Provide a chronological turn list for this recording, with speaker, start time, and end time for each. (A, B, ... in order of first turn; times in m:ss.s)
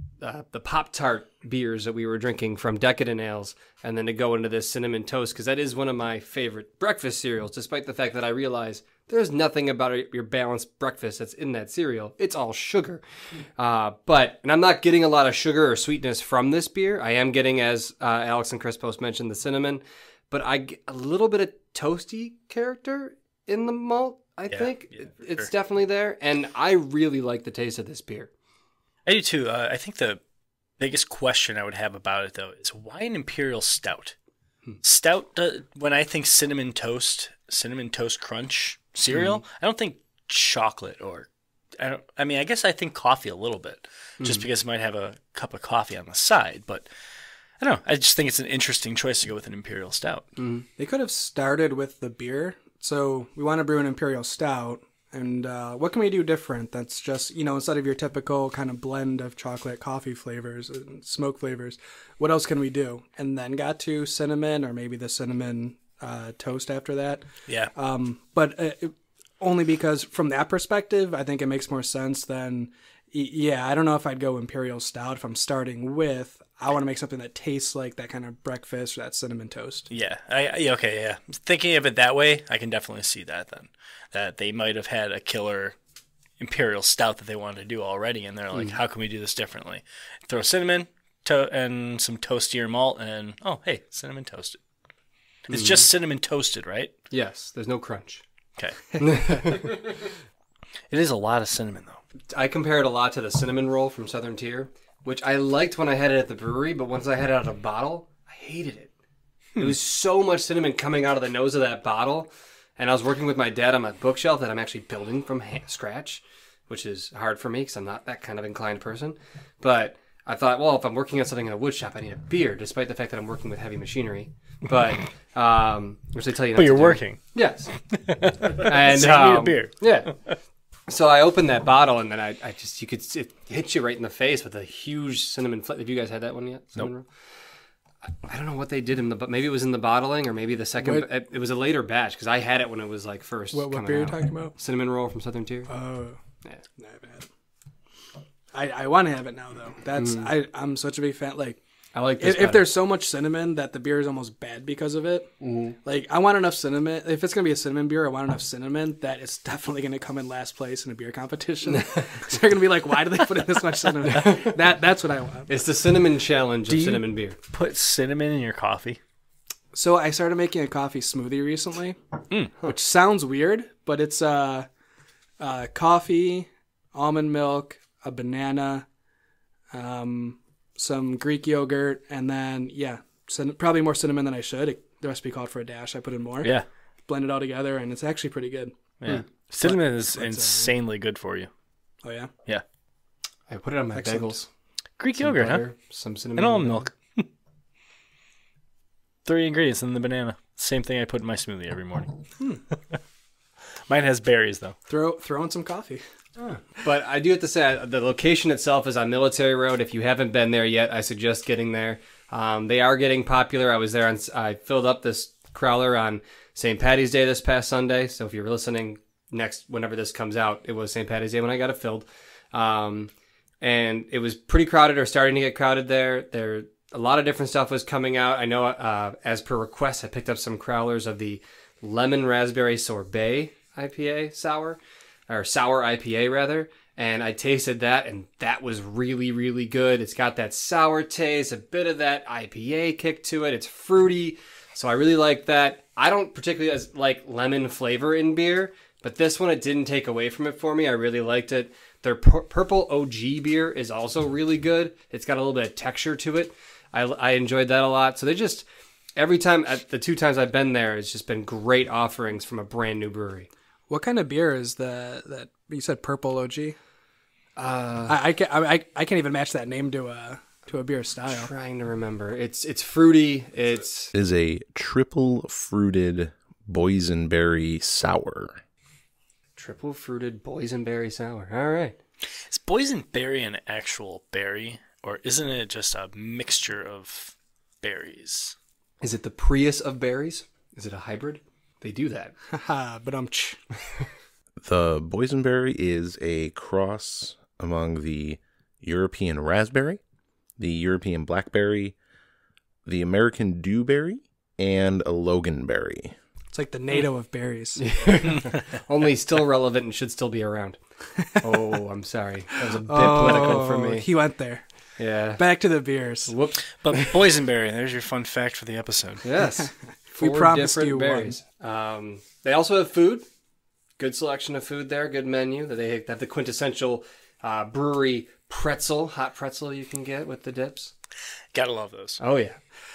0:00.2-0:13.0 A
0:13.6-0:28.3 A
0:29.0-0:30.2 B
0:30.8-0:34.2 B
0:34.8-0:46.8 B
0:39.1-0:39.4 A
0:44.2-0:44.4 A
0:47.6-0:50.3 B
0:50.4-0:50.6 A
0:50.8-1:19.9 C
1:07.5-1:07.7 B
1:19.9-1:25.8 B
1:26.4-1:34.6 B
1:35.5-1:36.9 B
1:35.5-1:35.9 A
1:37.1-1:38.2 A
1:38.6-1:39.8 B
1:39.0-1:39.7 A
1:40.9-1:42.0 B
1:42.3-1:48.9 A
1:49.6-2:07.7 A
2:06.6-2:07.2 B
2:07.9-2:10.4 B
2:08.5-2:10.1 A
2:10.9-2:17.0 A
2:18.2-2:25.7 A
2:20.8-2:21.1 C
2:23.5-2:24.5 C
2:25.7-2:26.2 C
2:26.8-2:27.2 C
2:28.5-2:31.6 C
2:30.0-2:30.3 A
2:31.9-2:32.6 A
2:32.2-2:35.3 C
2:35.4-2:35.7 A
2:35.8-2:45.6 C
2:44.1-2:44.5 A
2:45.5-2:47.4 A
2:46.7-2:49.0 B
2:49.7-2:52.0 C
2:52.6-2:54.7 C
2:55.4-2:58.8 C
2:59.7-3:06.5 C
3:07.1-3:08.7 C
3:09.0-3:11.5 B
3:09.5-3:10.7 C
3:12.0-3:12.3 C
3:13.5-3:14.4 A
3:13.9-3:14.5 C
3:15.0-3:15.6 B
3:15.2-3:16.8 A
3:16.4-3:17.3 B
3:19.2-3:22.2 B
3:23.9-3:24.8 B
3:24.9-3:26.0 C
3:26.4-3:54.8 A
3:55.3-4:18.6 A
4:19.2-4:23.5 A
4:23.9-4:26.8 C
4:27.6-4:28.1 A
4:28.1-4:31.5 C
4:31.3-4:34.1 A
4:34.1-4:38.6 D
4:39.6-4:42.0 A
4:42.5-4:48.5 B
4:49.0-4:52.3 A
4:52.5-4:53.6 C
4:54.6-5:00.0 D
5:00.6-5:01.9 D
5:02.8-5:06.2 D
5:06.5-5:07.8 C
5:07.8-5:10.8 A
5:11.3-5:14.1 A
5:12.8-5:14.6 C
5:15.0-5:15.4 A
5:15.4-5:16.3 C
5:16.3-5:17.1 A
5:16.8-5:19.2 B
5:19.2-5:23.2 A
5:20.1-5:21.4 C
5:24.0-5:30.9 A
5:31.5-5:32.2 B
5:32.2-5:32.6 A